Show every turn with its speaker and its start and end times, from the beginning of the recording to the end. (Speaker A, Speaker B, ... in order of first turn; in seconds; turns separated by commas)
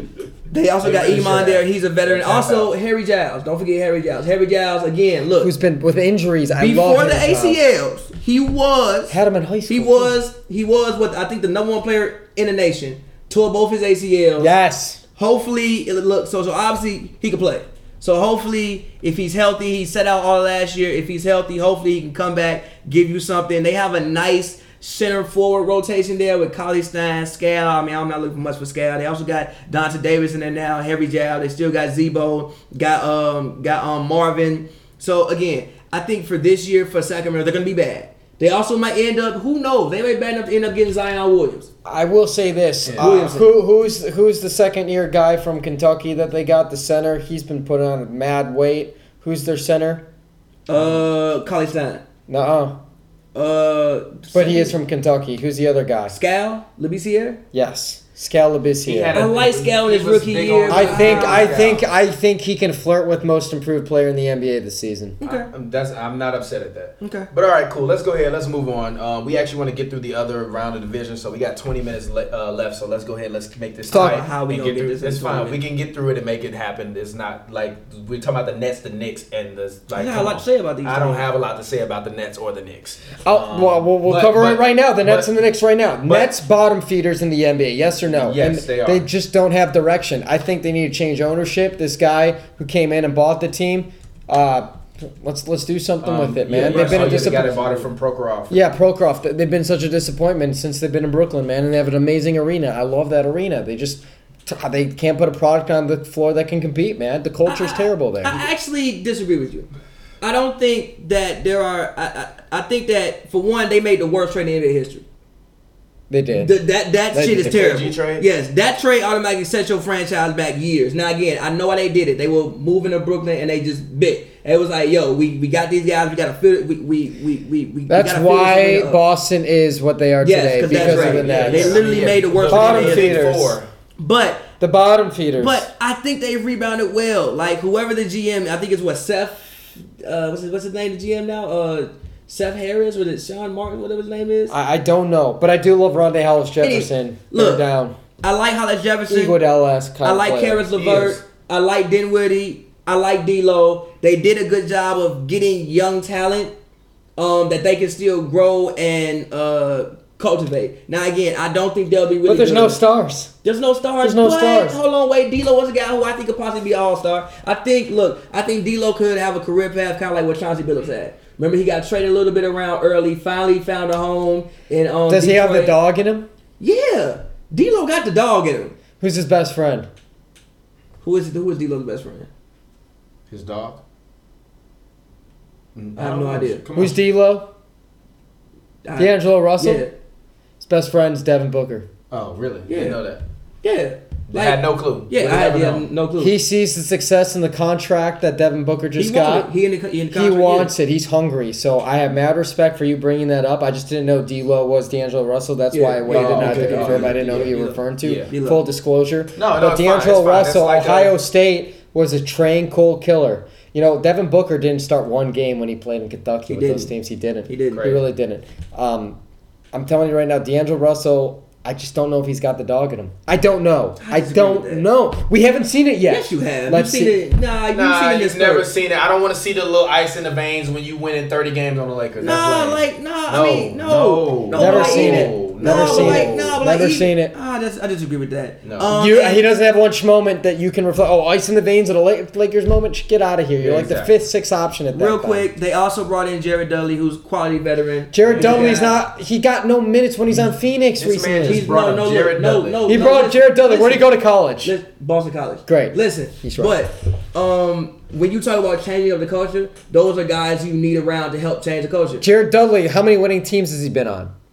Speaker A: 0.5-5.5, Speaker B: 0.8-2.7, Speaker C: 5.4-7.6, Speaker A: 6.6-9.2, Speaker C: 9.1-10.1, Speaker A: 9.7-14.5, Speaker C: 14.4-15.0, Speaker A: 15.2-41.7, Speaker C: 41.8-50.0, Speaker B: 42.9-43.1, Speaker A: 43.0-43.5, Speaker A: 50.7-52.0, Speaker C: 52.3-52.8, Speaker A: 53.3-54.7, Speaker C: 54.3-56.2, Speaker A: 56.1-57.4, Speaker C: 57.5-59.1, Speaker B: 58.8-61.9, Speaker A: 59.1-61.6, Speaker C: 60.7-65.2, Speaker A: 65.2-65.5, Speaker B: 65.2-85.3, Speaker A: 67.0-67.3, Speaker C: 73.9-74.2, Speaker A: 73.9-75.6, Speaker A: 79.9-81.3, Speaker C: 83.2-97.8, Speaker B: 88.1-89.1, Speaker B: 96.0-98.6, Speaker A: 96.6-97.5, Speaker C: 98.5-108.5, Speaker A: 107.5-109.7, Speaker A: 110.2-115.0, Speaker C: 116.1-116.5, Speaker A: 116.4-129.0, Speaker C: 117.1-117.7, Speaker B: 117.4-118.2, Speaker C: 127.9-131.9, Speaker A: 130.2-133.2, Speaker B: 130.7-133.7, Speaker C: 132.5-133.6, Speaker A: 134.0-134.5, Speaker C: 134.6-135.7, Speaker A: 135.4-144.6, Speaker C: 144.5-148.0, Speaker A: 146.6-147.6, Speaker A: 148.2-149.4, Speaker C: 149.1-150.6, Speaker A: 150.0-156.5, Speaker B: 150.7-151.2, Speaker A: 157.2-162.8, Speaker C: 162.2-163.3, Speaker A: 163.4-175.8, Speaker C: 164.0-164.8, Speaker C: 175.1-176.3, Speaker A: 176.6-178.8, Speaker C: 179.0-179.9, Speaker A: 181.0-182.3, Speaker B: 183.3-183.8, Speaker B: 185.7-187.0, Speaker A: 186.0-186.6, Speaker C: 186.7-187.5, Speaker A: 188.8-189.9, Speaker C: 189.0-189.9, Speaker C: 190.6-191.9, Speaker B: 192.1-193.2, Speaker A: 192.7-193.0, Speaker A: 193.6-196.4, Speaker B: 194.3-195.9, Speaker C: 196.2-199.5, Speaker A: 199.0-200.7, Speaker C: 200.1-219.2, Speaker A: 205.7-208.6, Speaker B: 206.1-207.5, Speaker B: 208.0-208.3, Speaker B: 209.4-211.1, Speaker A: 216.5-216.9, Speaker A: 217.5-217.9, Speaker B: 217.7-218.0, Speaker C: 219.7-227.2, Speaker A: 224.0-224.9, Speaker A: 226.1-228.7, Speaker B: 227.7-236.6, Speaker A: 232.2-239.4, Speaker C: 234.5-237.3, Speaker B: 238.6-238.9, Speaker C: 238.9-245.5, Speaker B: 243.6-244.1, Speaker A: 244.9-249.0, Speaker C: 248.1-251.6, Speaker B: 248.2-248.8, Speaker B: 250.3-252.9, Speaker A: 251.4-254.1, Speaker C: 252.9-254.7, Speaker A: 254.6-262.2, Speaker C: 255.7-256.8, Speaker C: 262.2-264.3